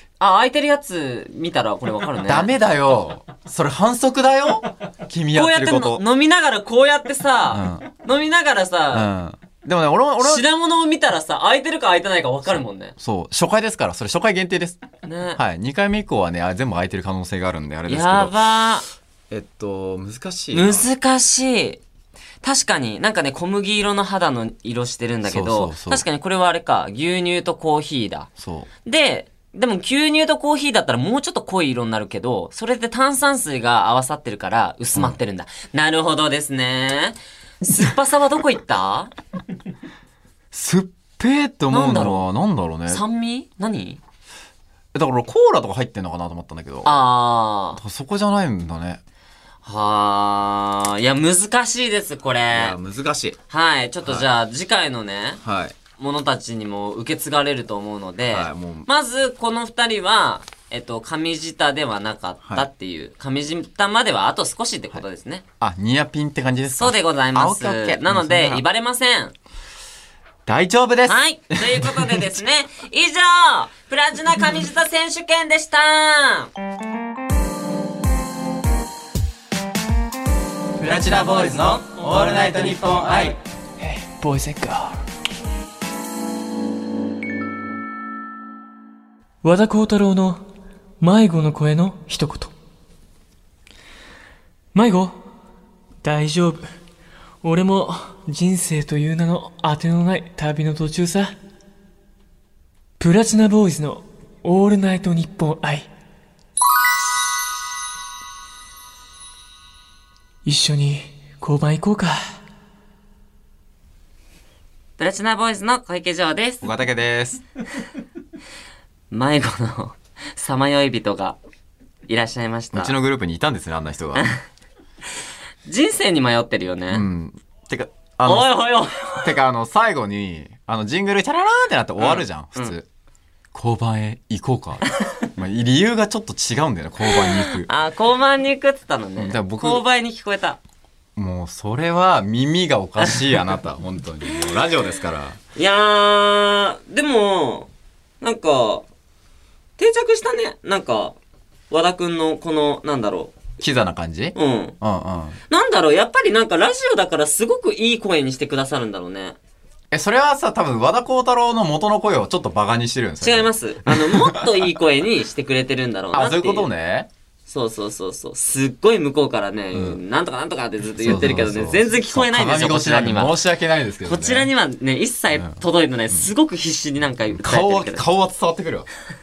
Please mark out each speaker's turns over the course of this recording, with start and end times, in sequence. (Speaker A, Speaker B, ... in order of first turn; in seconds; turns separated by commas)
Speaker A: 0.2-2.5, Speaker B: 2.2-6.0, Speaker A: 5.3-9.1, Speaker B: 7.5-7.8, Speaker B: 8.9-10.4, Speaker A: 10.2-12.9, Speaker B: 13.0-14.8, Speaker A: 15.0-15.4, Speaker B: 15.3-18.4, Speaker A: 17.9-18.9, Speaker B: 19.3-20.9, Speaker A: 20.5-21.8, Speaker A: 22.4-28.3, Speaker B: 25.2-26.0, Speaker B: 28.4-28.7, Speaker A: 28.8-39.1, Speaker B: 40.5-43.0, Speaker A: 41.7-42.2, Speaker A: 42.9-44.0, Speaker B: 44.9-47.0, Speaker A: 46.8-47.8, Speaker B: 47.8-49.0, Speaker A: 49.6-52.8, Speaker B: 52.5-53.4, Speaker A: 53.5-55.4, Speaker B: 55.4-55.8, Speaker A: 56.0-65.4, Speaker B: 58.3-58.9, Speaker B: 65.6-68.6, Speaker A: 66.7-69.3, Speaker B: 70.5-72.4, Speaker A: 71.1-76.5, Speaker B: 80.8-83.4, Speaker C: 83.8-85.0, Speaker C: 89.4-90.4, Speaker C: 91.0-92.5, Speaker C: 94.7-95.2, Speaker C: 96.0-96.7, Speaker C: 97.4-101.3, Speaker C: 103.0-105.9, Speaker C: 110.4-112.3, Speaker A: 115.0-116.7, Speaker B: 116.6-117.4, Speaker A: 119.1-121.4, Speaker A: 122.1-122.9, Speaker B: 122.7-124.2, Speaker A: 125.7-127.0, Speaker B: 126.9-128.5, Speaker A: 128.2-129.3, Speaker B: 129.2-132.8, Speaker A: 132.0-132.7, Speaker B: 133.5-137.7, Speaker A: 137.1-140.6, Speaker B: 139.2-139.8, Speaker B: 141.2-145.4, Speaker A: 145.5-147.7, Speaker A: 148.2-148.9, Speaker A: 149.8-151.2, Speaker A: 151.7-153.3, Speaker B: 153.6-155.4, Speaker A: 154.3-154.8, Speaker A: 155.5-159.3, Speaker B: 159.9-164.7, Speaker A: 163.2-166.7, Speaker B: 166.1-167.1, Speaker A: 167.5-173.4, Speaker B: 169.7-170.0, Speaker B: 170.9-174.5, Speaker A: 174.0-178.0, Speaker B: 177.3-178.9